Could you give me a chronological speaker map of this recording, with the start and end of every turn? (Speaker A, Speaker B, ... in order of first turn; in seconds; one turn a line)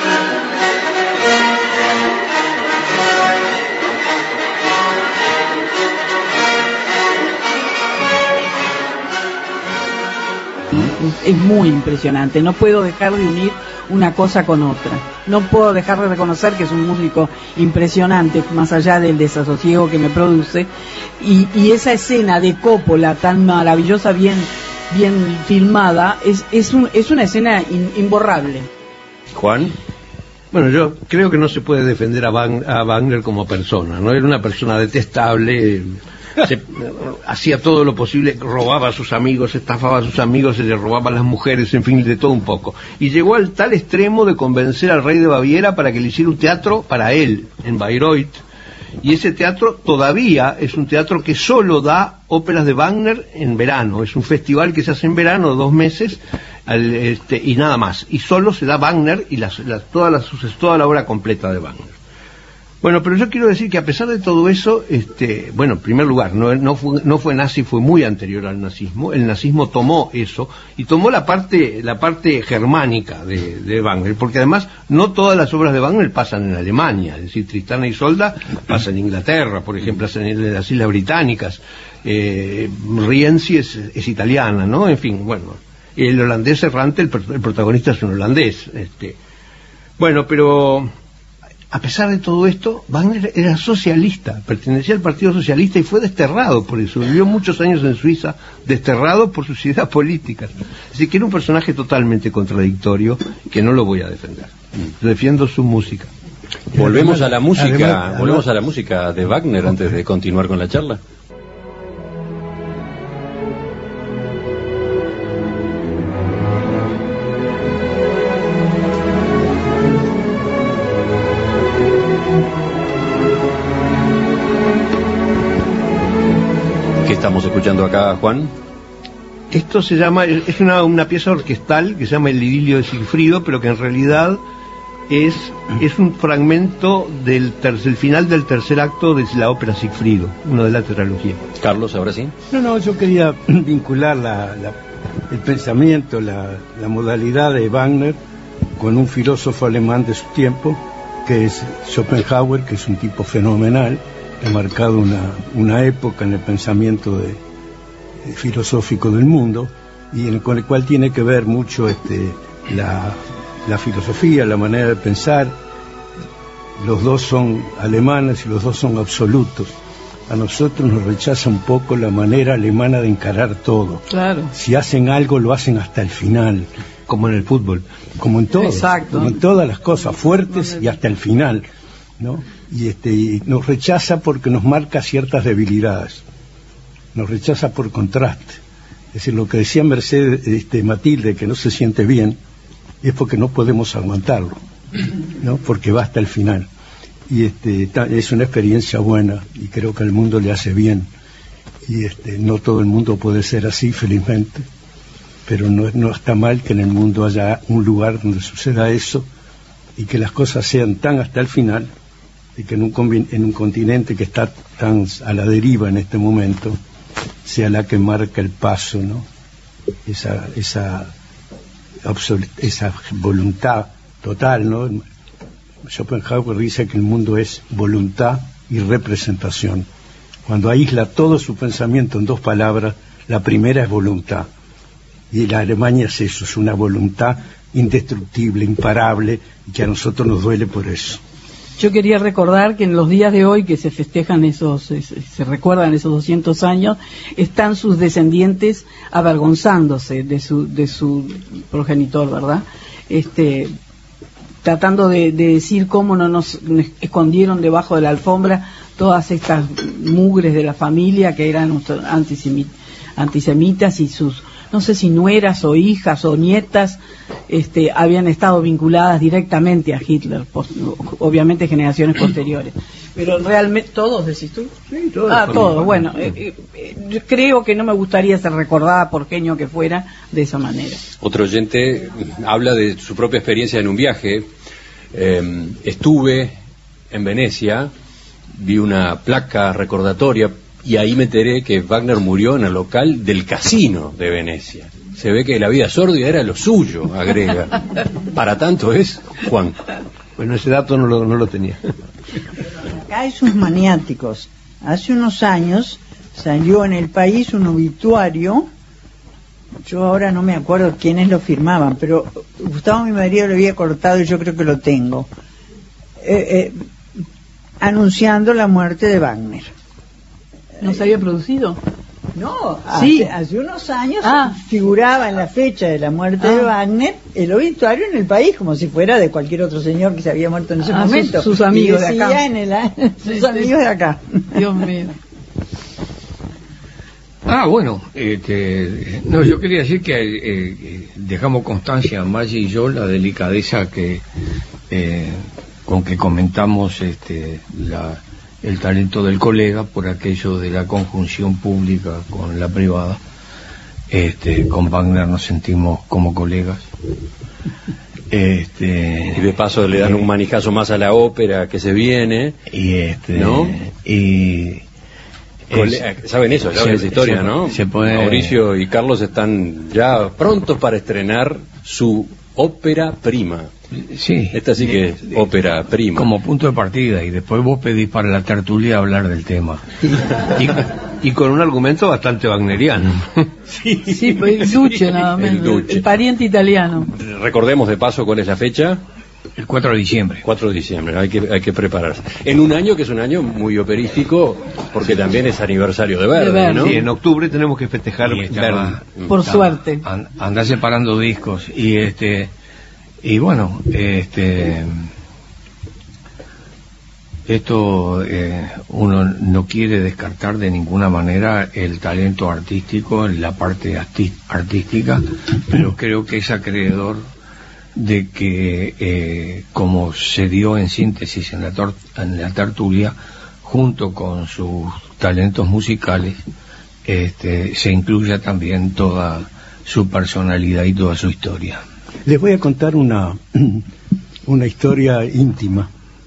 Speaker A: 10.7-20.7
Speaker A: 21.2-28.7
Speaker B: 29.3-29.7
Speaker C: 30.5-48.4
Speaker C: 49.0-61.9
Speaker C: 62.8-89.2
Speaker C: 90.0-90.9
Speaker C: 91.7-106.1
Speaker D: 106.7-108.5
Speaker B: 106.7-111.0
Speaker B: 127.0-128.5
Speaker C: 129.5-134.4
Speaker C: 135.1-141.5
Speaker B: 141.6-142.3
Speaker D: 142.5-144.8
Speaker D: 145.3-148.2
Speaker D: 148.8-157.4
Speaker D: 158.2-165.5
Speaker D: 166.8-169.7
Speaker D: 170.3-176.7
Speaker A: 174.1-174.5
Speaker C: 177.1-177.8
Speaker D: 178.2-181.6
Speaker A: 178.6-179.3
Speaker D: 182.2-186.2
Speaker D: 187.1-188.6
Speaker D: 189.1-192.4
Speaker D: 193.0-194.6
Speaker D: 195.4-196.7
Speaker D: 197.3-201.1
Speaker D: 201.8-204.6
Speaker D: 205.5-209.3
Speaker D: 210.0-211.9
Speaker D: 212.6-216.8
Speaker D: 217.4-219.2
Speaker D: 220.1-221.1
Speaker D: 222.0-225.0
Speaker D: 225.8-229.8
Speaker D: 230.4-234.5
Speaker D: 235.3-241.2
Speaker A: 241.8-253.7
Speaker A: 254.6-274.7
Speaker C: 274.9-275.9
Speaker A: 275.3-281.0
Speaker B: 281.2-284.4
Speaker B: 285.1-286.5
Speaker B: 287.1-287.9
Speaker B: 288.6-297.8
Speaker B: 298.3-299.7
Speaker C: 300.4-301.8
Speaker E: 302.8-308.7
Speaker E: 309.8-315.3
Speaker E: 316.2-316.7
Speaker E: 317.8-319.7
Speaker A: 320.8-321.8
Speaker E: 322.3-334.4
Speaker A: 322.9-323.3
Speaker A: 324.2-324.6
Speaker A: 326.4-326.7
Speaker A: 330.8-332.5
Speaker A: 333.2-333.7
Speaker A: 334.5-335.1
Speaker F: 337.4-344.2
Speaker F: 344.9-353.2
Speaker F: 354.1-356.9
Speaker F: 358.3-360.1
Speaker B: 359.4-362.6
Speaker F: 362.7-364.8
Speaker B: 363.3-363.7
Speaker F: 365.7-366.1
Speaker B: 365.7-373.7
Speaker F: 366.7-368.6
Speaker F: 374.0-374.6
Speaker B: 374.5-376.3
Speaker F: 376.1-379.8
Speaker C: 380.2-383.5
Speaker A: 384.0-387.1
Speaker B: 385.4-386.0
Speaker B: 387.1-389.0
Speaker F: 389.6-390.4
Speaker B: 390.4-397.0
Speaker A: 396.3-397.1
Speaker C: 396.8-399.1
Speaker F: 398.2-402.5
Speaker A: 399.2-400.0
Speaker F: 403.2-404.9
Speaker F: 407.5-417.2
Speaker F: 417.9-426.4
Speaker F: 427.1-431.8
Speaker D: 432.2-433.8
Speaker D: 434.4-435.9